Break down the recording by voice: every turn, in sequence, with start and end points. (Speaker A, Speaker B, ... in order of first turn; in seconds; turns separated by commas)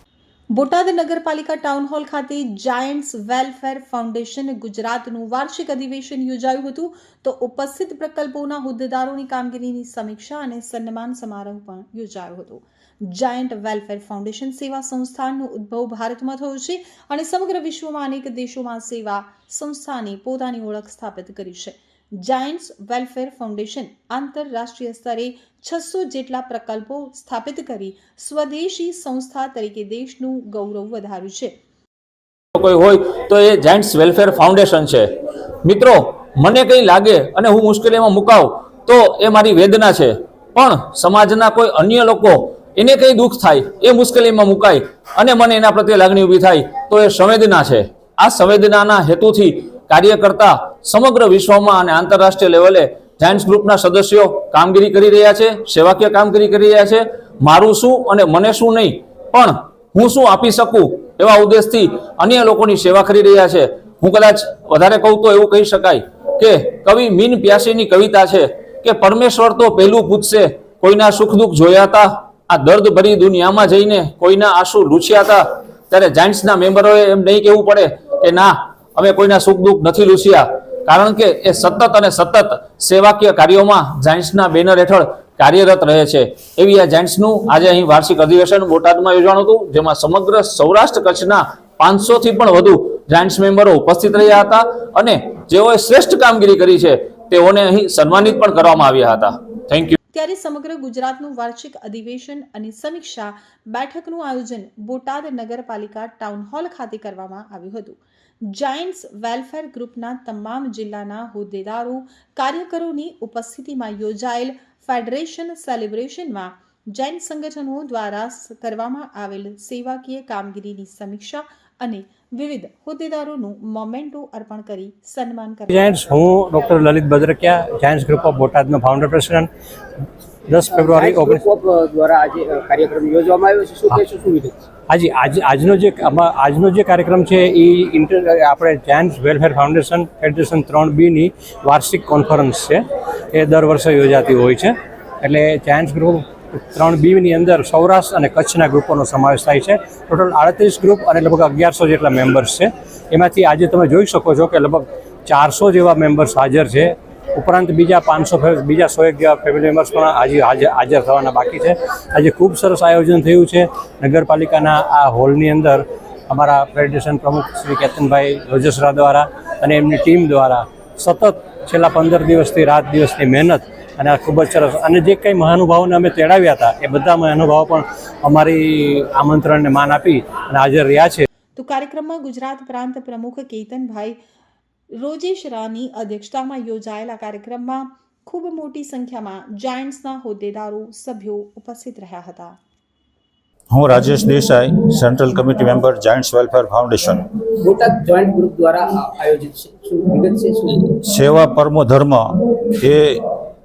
Speaker A: 0.5-31.5, Speaker B: 32.5-35.1, Speaker B: 35.6-100.0, Speaker A: 100.1-125.9, Speaker C: 125.7-129.5, Speaker C: 130.6-131.3, Speaker D: 130.6-134.6, Speaker C: 134.9-142.8, Speaker C: 143.3-181.2, Speaker A: 181.6-184.2, Speaker A: 185.0-192.6, Speaker E: 193.7-197.3, Speaker D: 197.6-200.9, Speaker E: 201.0-203.2